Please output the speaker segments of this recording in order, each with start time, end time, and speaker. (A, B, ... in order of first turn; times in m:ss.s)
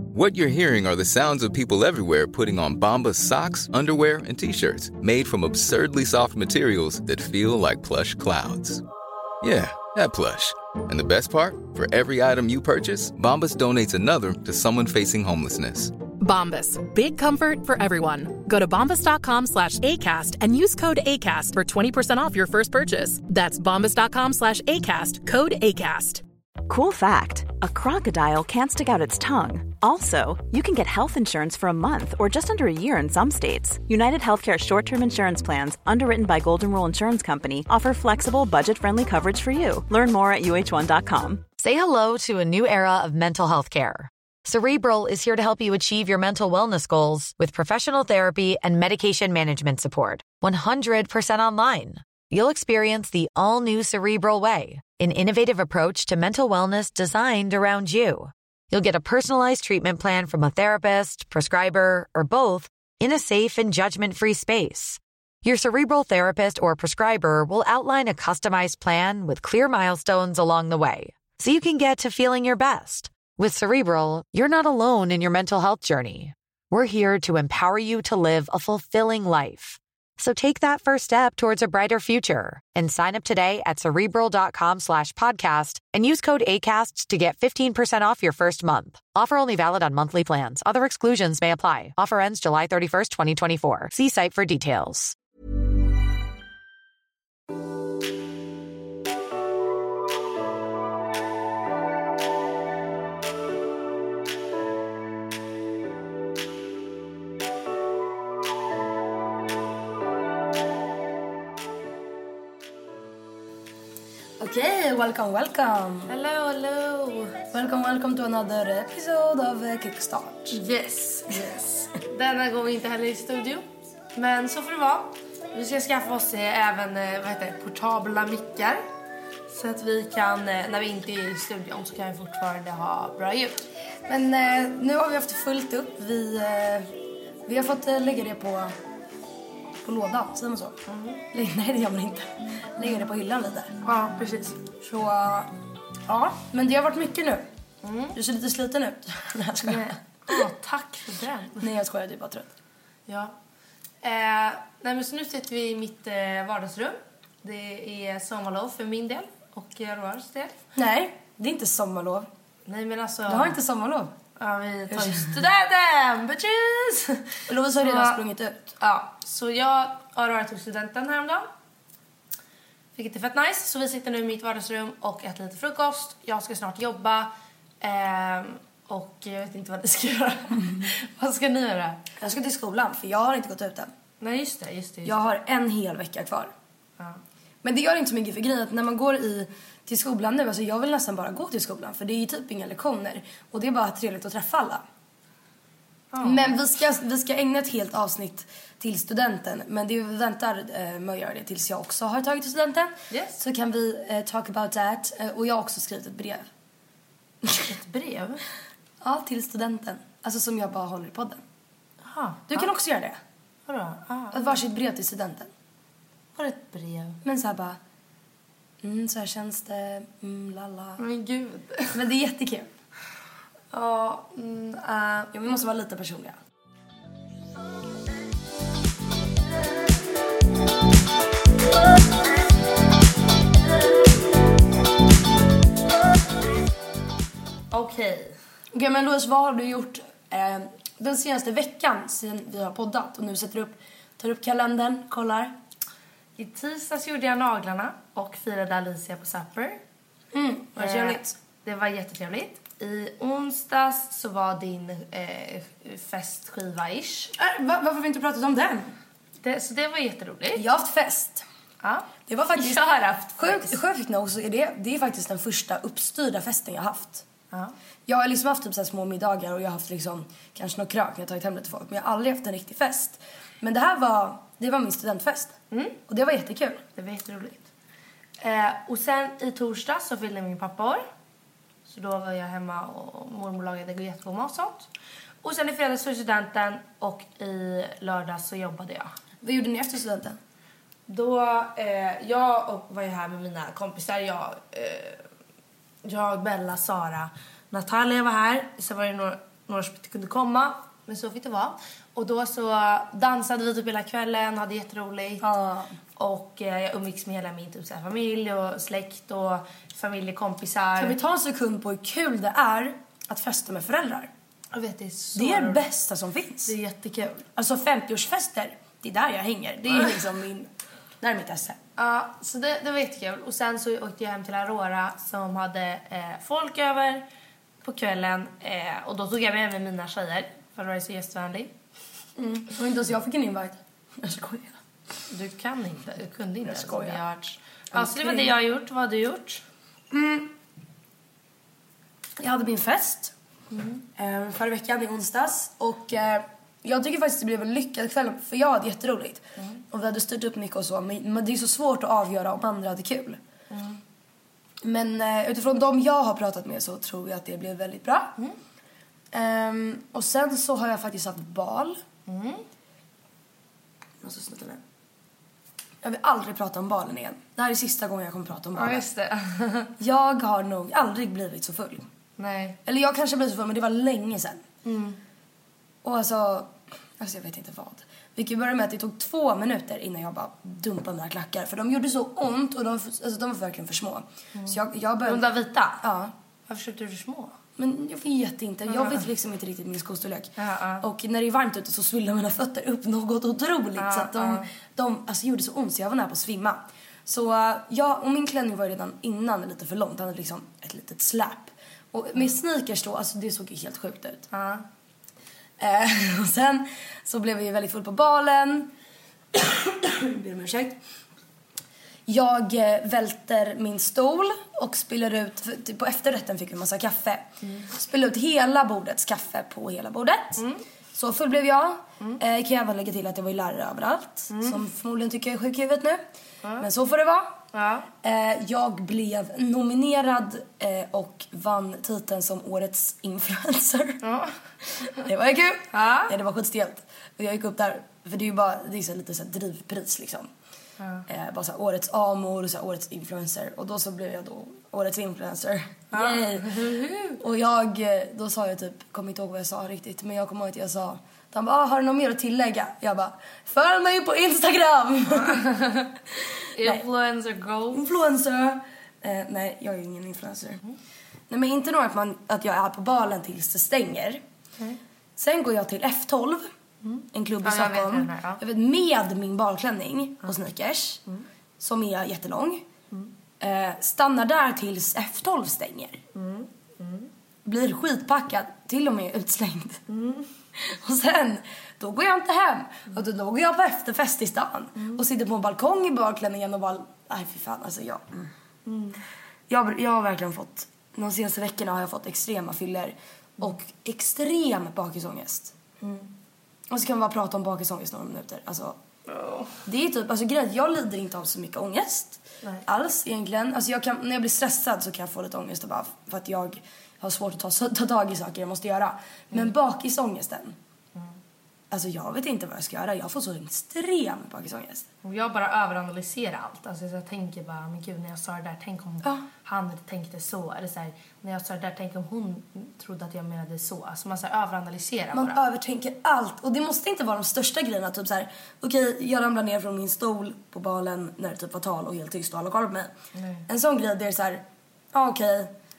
0:00.1-0:08.8 A
0:09.4-0:15.9 A
0:16.2-0:26.2 B
0:26.7-0:41.4 C
0:41.6-1:35.2 D
1:54.4-1:56.1 E
1:56.1-1:57.4 F
1:57.5-2:00.6 E
2:00.5-2:03.6 F
2:01.3-2:01.6 E
2:04.1-2:08.8 F
2:09.5-2:13.6 F
2:14.1-2:16.9 E
2:17.4-2:18.7 E
2:19.8-2:20.8 E
2:20.9-2:21.2 F
2:21.3-2:23.7 E
2:23.8-2:24.6 F
2:24.6-2:25.5 E
2:26.1-2:27.5 E
2:27.8-2:28.2 F
2:28.1-2:30.4 E
2:29.6-2:31.7 F
2:31.6-2:32.5 E
2:33.1-2:33.3 F
2:34.0-2:40.5 F
2:40.7-2:42.3 E
2:42.6-2:43.6 F
2:43.3-2:44.1 E
2:44.4-2:48.2 F
2:44.9-2:45.2 E
2:47.5-2:48.7 E
2:48.8-2:51.5 F
2:53.0-3:02.0 F
3:02.2-3:03.9 E
3:04.2-3:05.2 F
3:05.0-3:06.5 E
3:07.6-3:14.8 E
3:16.1-3:16.5 F
3:16.2-3:26.5 E
3:23.1-3:23.4 F
3:27.6-3:28.4 F
3:29.0-3:31.4 E
3:32.0-3:32.7 F
3:32.5-3:33.2 E
3:33.7-3:34.6 F
3:34.3-3:35.5 E
3:36.4-3:37.2 F
3:37.2-3:37.8 E
3:38.8-3:41.0 E
3:41.0-3:42.0 F
3:41.9-3:42.7 E
3:43.7-3:45.3 F
3:45.3-3:46.4 E
3:57.7-3:58.4 F
3:58.7-4:05.5 E
4:06.4-4:09.8 F
4:10.3-4:11.3 E
4:10.8-4:17.3 F
4:17.4-4:18.9 E
4:19.4-4:20.6 F
4:20.5-4:21.4 E
4:21.8-4:23.8 F
4:22.3-4:27.2 E
4:28.1-4:35.6 E
4:35.7-4:36.0 F
4:36.1-4:36.8 E
4:37.0-4:37.7 F
4:38.4-4:41.0 F
4:41.8-4:44.9 F
4:45.4-4:49.1 F
4:49.4-4:50.4 E
4:51.1-4:55.2 F
4:56.0-5:05.4 F
5:05.4-5:05.9 E
5:06.2-5:11.2 F
5:11.0-5:14.3 E
5:14.7-5:15.8 F
5:15.3-5:16.7 E
5:16.6-5:17.4 F
5:17.6-5:20.7 E
5:21.2-5:21.8 E
5:22.0-5:27.2 F
5:27.8-5:31.7 F
5:32.4-5:34.8 E
5:35.3-5:39.6 F
5:36.6-5:37.2 E
5:37.9-5:38.5 E
5:40.1-5:40.5 E
5:42.4-5:43.3 E
5:43.7-5:44.0 F
5:44.2-5:53.4 E
5:53.7-5:54.0 F
5:54.8-5:58.3 E
5:59.3-6:02.0 E
6:02.3-6:02.6 F
6:04.2-6:04.8 E
6:06.0-6:09.0 E
6:08.8-6:09.9 F
6:10.0-6:12.1 E
6:12.4-6:12.8 F
6:12.8-6:14.6 E
6:14.8-6:15.2 F
6:16.0-6:25.5 E
6:24.5-6:26.0 F
6:26.0-6:26.3 E
6:26.7-6:27.5 F
6:27.8-6:44.5 E
6:28.9-6:29.2 F
6:30.6-6:31.0 F
6:34.0-6:34.7 F
6:44.5-6:44.8 F
6:45.8-6:48.9 E
6:49.5-6:51.0 E
6:52.2-7:00.6 E
7:01.1-7:06.2 E
7:04.5-7:04.8 F
7:06.8-7:07.6 E
7:07.7-7:08.1 F
7:08.2-7:14.2 E
7:14.2-7:14.5 F
7:14.9-7:20.5 E
7:15.9-7:16.3 F
7:21.0-7:21.2 F
7:21.3-7:37.0 E
7:26.1-7:27.4 F
7:36.7-7:38.0 F
7:37.9-7:40.8 E
7:41.5-7:44.4 E
7:45.4-7:46.7 E
7:47.0-7:48.6 F
7:47.3-7:51.2 E
7:51.8-7:52.8 E
7:53.6-7:56.2 E
7:56.3-7:57.3 F
7:57.6-8:00.0 E
8:00.1-8:00.4 F
8:00.8-8:08.5 E
8:08.8-8:09.2 F
8:09.7-8:15.7 E
8:16.0-8:16.3 F
8:16.9-8:19.0 E
8:19.3-8:19.8 F
8:19.8-8:30.7 E
8:31.9-8:35.0 E
8:35.2-8:45.6 F
8:45.3-8:53.1 E
8:53.3-8:53.6 F
8:53.7-8:55.7 E